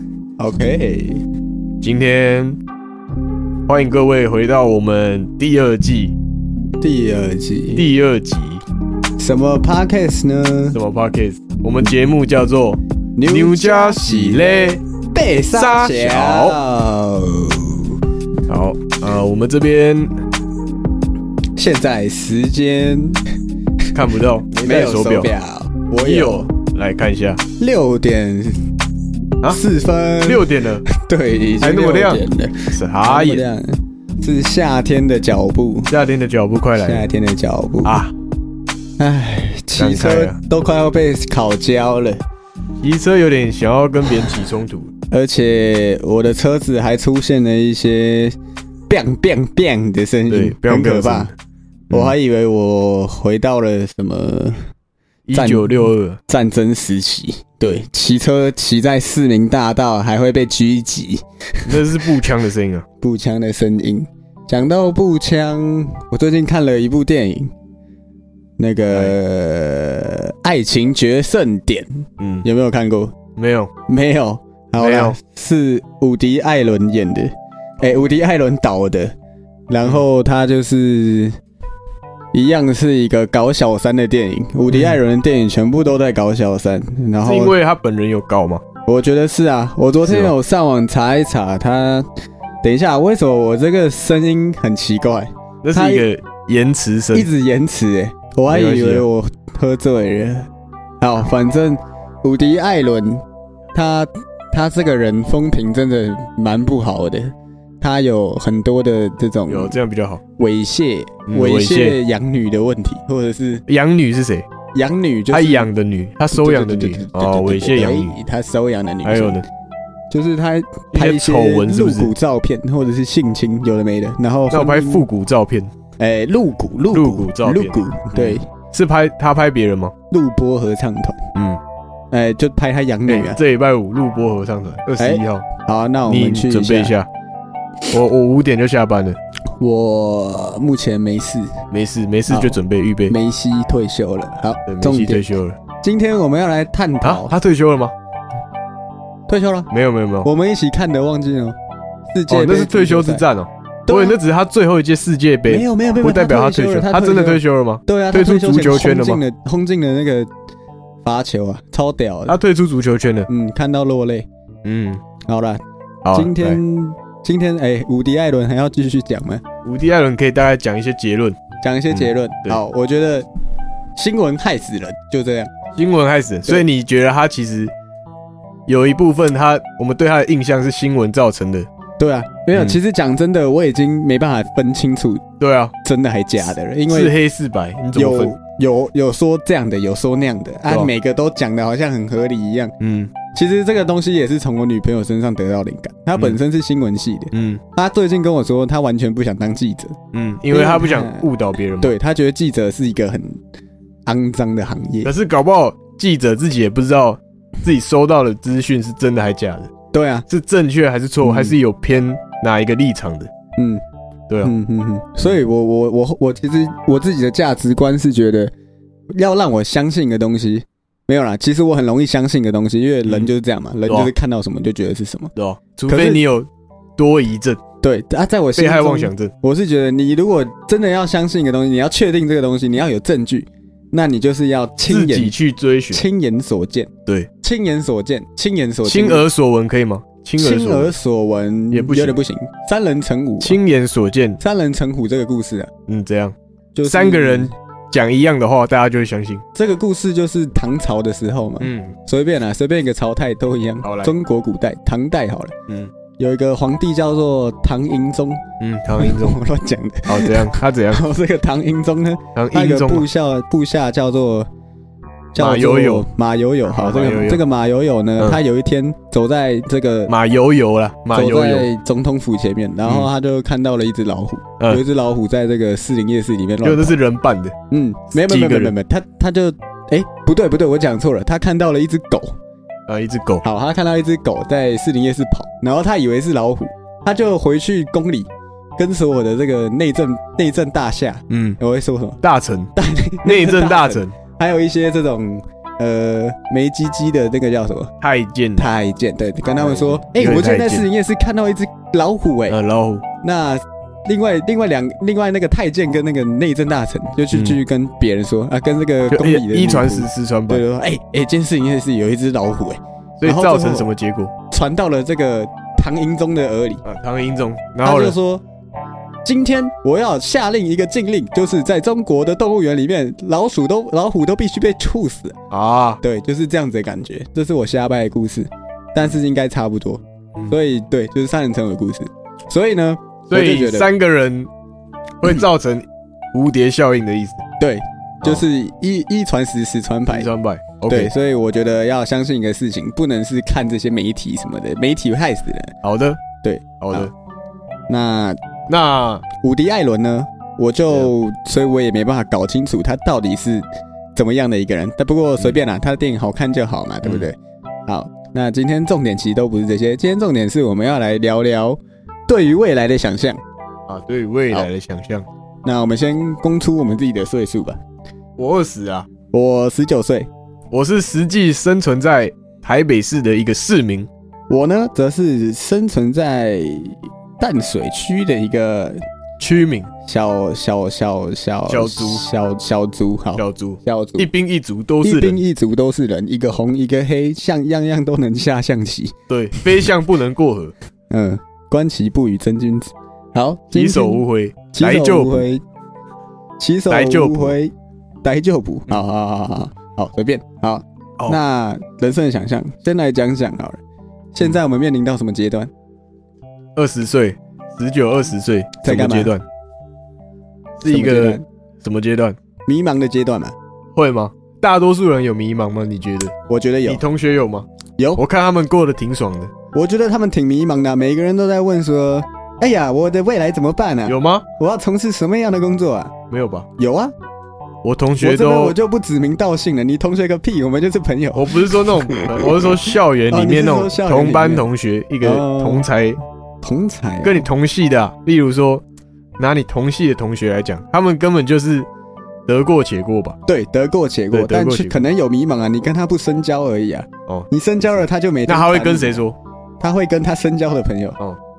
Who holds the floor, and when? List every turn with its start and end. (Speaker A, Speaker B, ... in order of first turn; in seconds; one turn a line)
Speaker A: 0.4-1.2
Speaker B: 1.8-2.6
Speaker B: 3.7-6.2
Speaker A: 6.8-7.9
Speaker B: 7.8-8.6
Speaker A: 9.2-10.8
Speaker B: 10.7-14.8
Speaker A: 13.2-18.0
Speaker B: 15.5-16.6
Speaker B: 18.5-20.1
Speaker A: 21.6-23.2
Speaker B: 23.9-25.3
Speaker A: 24.5-26.5
Speaker B: 26.0-27.4
Speaker A: 27.6-28.7
Speaker A: 29.5-35.9
Speaker B: 30.2-30.9
Speaker B: 31.6-33.4
Speaker B: 35.9-37.1
Speaker A: 36.8-38.0
Speaker B: 37.9-38.1
Speaker A: 39.0-42.2
Speaker B: 39.8-40.4
Speaker B: 42.8-44.9
Speaker A: 45.1-48.4
Speaker A: 48.9-51.3
Speaker B: 50.3-51.3
Speaker A: 51.9-54.6
Speaker B: 51.9-52.2
Speaker B: 55.3-56.2
Speaker A: 55.3-62.1
Speaker B: 61.6-62.9
Speaker A: 63.0-67.5
Speaker A: 68.6-73.2
Speaker B: 68.9-69.2
Speaker B: 72.2-72.5
Speaker B: 73.4-73.7
Speaker A: 73.9-79.1
Speaker B: 74.8-75.2
Speaker A: 79.7-81.4
Speaker A: 82.3-87.6
Speaker B: 84.7-85.0
Speaker B: 87.2-88.6
Speaker A: 88.9-92.1
Speaker B: 90.0-90.3
Speaker A: 92.6-96.1
Speaker B: 95.6-97.3
Speaker A: 97.1-100.5
Speaker B: 98.5-99.1
Speaker A: 101.0-109.8
Speaker B: 109.5-110.2
Speaker A: 110.4-113.7
Speaker B: 111.3-112.0
Speaker B: 113.7-114.5
Speaker A: 114.7-115.7
Speaker B: 115.3-118.2
Speaker A: 116.3-119.4
Speaker B: 119.0-119.5
Speaker A: 120.1-125.1
Speaker B: 120.9-122.1
Speaker B: 124.5-125.7
Speaker A: 126.0-128.5
Speaker B: 126.9-129.9
Speaker A: 130.1-131.2
Speaker B: 131.3-131.6
Speaker A: 132.1-133.4
Speaker B: 133.1-135.5
Speaker A: 135.0-136.9
Speaker B: 136.1-137.1
Speaker B: 137.9-139.2
Speaker A: 139.6-141.6
Speaker B: 141.7-143.2
Speaker A: 142.3-145.3
Speaker B: 144.7-145.6
Speaker A: 145.8-147.4
Speaker B: 147.0-147.9
Speaker A: 149.3-149.7
Speaker B: 149.7-150.3
Speaker A: 150.2-151.6
Speaker A: 152.1-153.3
Speaker B: 152.3-159.2
Speaker A: 153.9-154.2
Speaker A: 155.5-160.3
Speaker A: 161.0-162.4
Speaker B: 162.3-163.3
Speaker A: 163.3-164.3
Speaker B: 164.7-165.0
Speaker A: 165.3-169.4
Speaker B: 166.1-166.6
Speaker B: 169.6-171.4
Speaker A: 171.6-173.3
Speaker B: 171.9-172.6
Speaker A: 174.0-175.5
Speaker B: 175.8-177.7
Speaker B: 178.7-181.7
Speaker A: 182.0-185.2
Speaker B: 185.4-185.7
Speaker A: 185.8-187.1
Speaker B: 186.9-188.4
Speaker A: 187.9-192.7
Speaker B: 192.8-193.1
Speaker A: 193.3-200.0
Speaker B: 197.3-197.6
Speaker B: 200.1-201.9
Speaker A: 200.5-203.4
Speaker A: 204.1-205.1
Speaker B: 205.0-209.7
Speaker A: 209.9-210.3
Speaker B: 210.3-213.3
Speaker A: 211.2-211.6
Speaker A: 213.6-213.8
Speaker A: 214.4-218.5
Speaker A: 219.1-225.3
Speaker B: 223.1-223.3
Speaker B: 225.3-227.6
Speaker A: 225.9-226.2
Speaker A: 227.8-235.3
Speaker B: 228.6-229.3
Speaker B: 234.9-236.0
Speaker A: 235.9-236.9
Speaker A: 237.4-239.3
Speaker B: 238.8-240.9
Speaker A: 240.4-243.6
Speaker B: 241.7-242.2
Speaker B: 243.4-244.4
Speaker A: 244.4-245.7
Speaker B: 245.9-249.4
Speaker A: 246.8-247.5
Speaker A: 249.5-255.5
Speaker B: 251.6-252.0
Speaker B: 253.8-254.1
Speaker B: 255.7-255.9
Speaker A: 256.2-258.4
Speaker B: 258.6-259.4
Speaker A: 259.0-264.5
Speaker B: 260.1-261.0
Speaker B: 262.4-263.1
Speaker A: 265.3-270.1
Speaker B: 265.4-266.1
Speaker B: 266.7-267.4
Speaker B: 270.1-271.7
Speaker A: 271.1-277.0
Speaker B: 276.6-277.6
Speaker A: 277.7-282.4
Speaker B: 278.1-278.7
Speaker B: 282.9-283.4
Speaker A: 283.4-292.2
Speaker B: 291.3-291.6
Speaker B: 292.2-292.7
Speaker A: 292.8-297.9
Speaker B: 293.2-294.2
Speaker B: 298.0-298.7
Speaker A: 298.6-302.6
Speaker B: 299.6-300.9
Speaker B: 302.5-303.1
Speaker A: 303.2-313.9
Speaker B: 307.3-307.6
Speaker B: 309.1-310.6
Speaker B: 313.2-314.3
Speaker A: 314.5-316.8
Speaker B: 316.9-318.2
Speaker A: 317.8-318.4
Speaker A: 319.2-325.4
Speaker B: 325.5-326.0
Speaker A: 326.0-333.9
Speaker B: 333.3-334.5
Speaker B: 335.2-337.4
Speaker A: 337.6-340.3
Speaker B: 340.1-341.1
Speaker A: 340.9-345.8
Speaker B: 345.8-346.2
Speaker A: 346.4-347.1
Speaker B: 346.8-347.1
Speaker A: 347.9-348.4
Speaker B: 348.7-349.2
Speaker A: 349.4-363.4
Speaker B: 363.9-365.3
Speaker A: 365.6-367.8
Speaker B: 368.4-369.1
Speaker A: 369.3-370.3
Speaker B: 370.7-374.1
Speaker A: 374.5-379.0
Speaker B: 379.4-379.9
Speaker A: 380.1-384.3
Speaker B: 381.7-382.2
Speaker B: 383.4-385.4
Speaker A: 385.0-389.9
Speaker B: 389.3-390.7
Speaker A: 391.1-394.2
Speaker B: 393.7-395.4
Speaker A: 394.7-395.6
Speaker A: 396.6-403.8
Speaker B: 396.9-397.6
Speaker A: 404.3-405.7
Speaker B: 406.8-409.4
Speaker A: 408.8-409.4
Speaker B: 410.8-412.4
Speaker A: 410.9-411.4
Speaker A: 412.7-413.6
Speaker B: 413.9-416.3
Speaker A: 416.5-417.0
Speaker B: 416.9-419.5
Speaker A: 419.7-426.1
Speaker B: 424.1-424.5
Speaker B: 426.3-426.7
Speaker A: 426.8-427.1
Speaker B: 427.8-428.8
Speaker A: 428.2-434.7
Speaker B: 431.3-436.2
Speaker A: 435.2-435.9
Speaker A: 436.6-437.5
Speaker B: 437.2-438.8
Speaker B: 439.4-441.9
Speaker B: 442.5-443.4
Speaker A: 443.5-449.2
Speaker B: 444.3-445.0
Speaker B: 447.3-449.4
Speaker A: 449.8-451.2